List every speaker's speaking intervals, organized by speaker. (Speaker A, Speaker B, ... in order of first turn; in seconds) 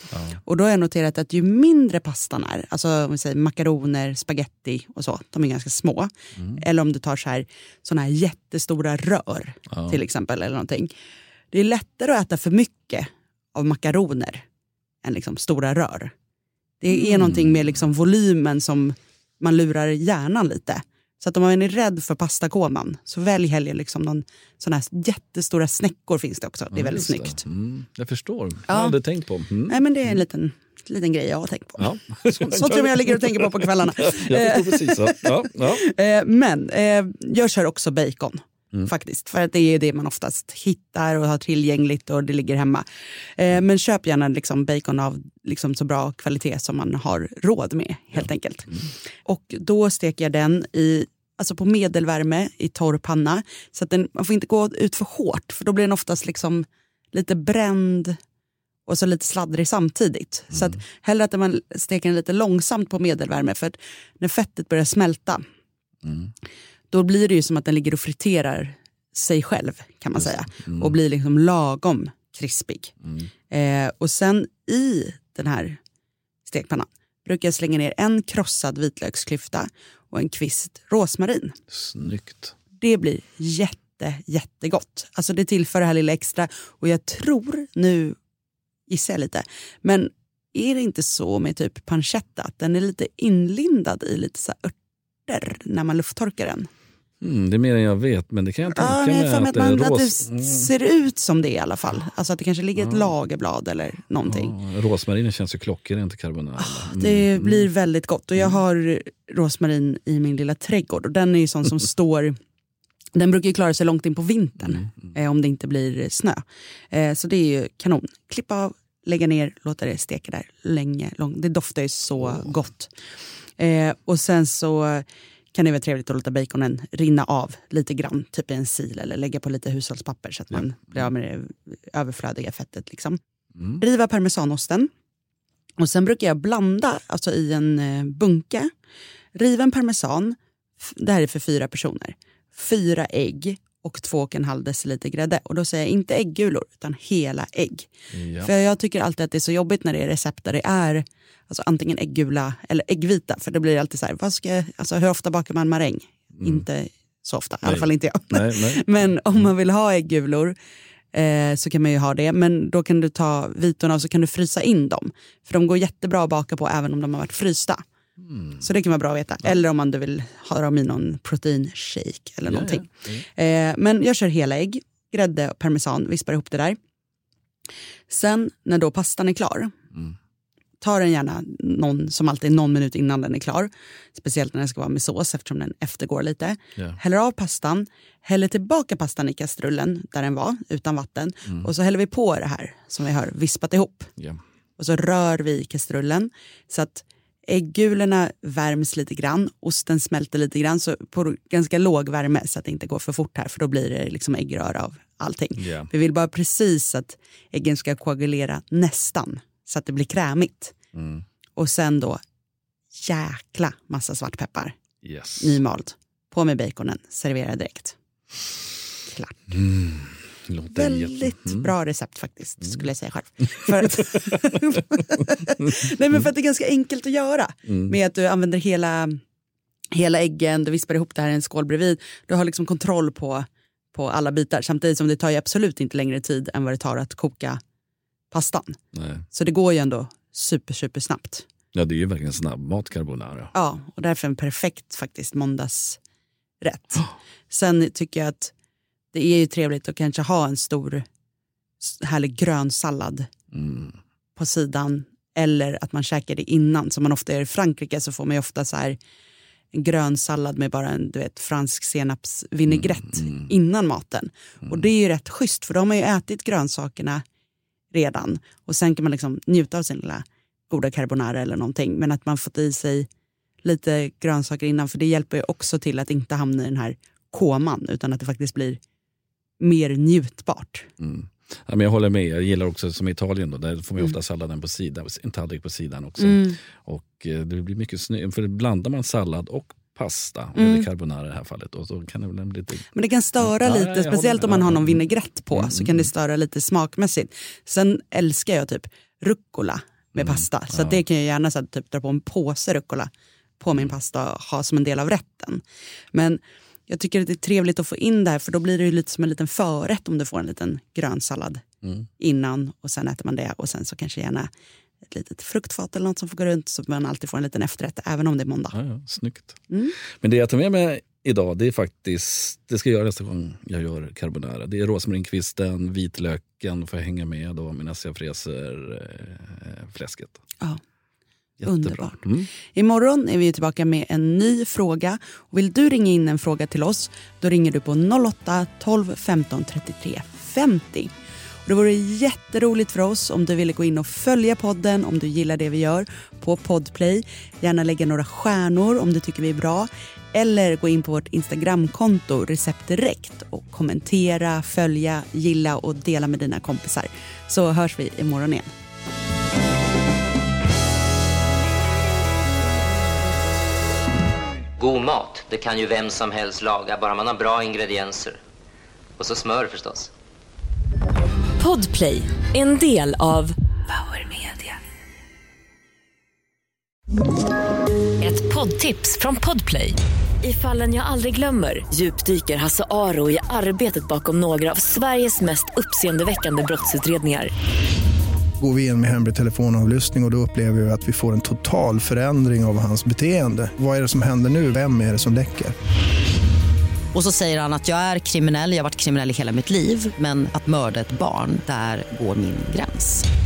Speaker A: 0.4-10.9, 11.5-14.4, 15.0-16.1, 16.8-27.4, 28.7-29.0, 29.7-42.8, 43.4-58.2, 58.9-65.4, 66.9-72.9, 73.5-75.8, 76.5-81.6, 82.8-88.2, 88.9-94.7, 95.3-96.7, 98.7-104.5, 106.6-112.3, 113.1-122.9, 123.6-134.9, 135.8-138.7, 139.3-147.9, 148.4-160.6, 161.1-167.8, 168.6-176.8, 178.1-179.7, 180.8-194.1, 194.8-210.7, 211.6-212.2, 213.0-214.8, 215.4-217.9, 219.0-219.5, 220.7-229.2, 229.9-237.6, 238.3-238.8, 239.3-241.5, 243.5-246.0, 246.6-248.5, 249.1-251.0, 251.8-253.3, 254.3-259.0, 259.7-267.2, 267.9-273.1, 273.6-278.8, 279.6-280.9, 286.2-286.5, 290.6-290.9, 292.9-305.6, 306.1-311.6, 312.2-314.5, 315.0-318.8, 319.7-319.9, 331.6-341.1, 341.6-358.7
Speaker B: 9.7-10.0, 26.7-29.8, 31.8-35.8, 66.0-66.3, 81.7-82.5, 97.2-100.7, 102.8-103.1, 104.2-107.7, 148.1-148.5, 156.4-156.6, 157.6-159.1, 172.4-173.2, 205.6-205.9, 210.9-211.2, 215.0-215.6, 219.5-221.7, 227.7-227.9, 238.9-239.2, 241.7-243.5, 253.5-253.9, 281.0-292.9, 293.4-295.0, 295.5-296.1, 300.2-301.0, 318.7-319.6, 320.2-330.4, 331.6-332.5
Speaker C: 364.8-368.4, 369.2-370.1
Speaker D: 371.6-374.7, 378.2-387.5
Speaker E: 388.6-395.8
Speaker F: 397.1-403.2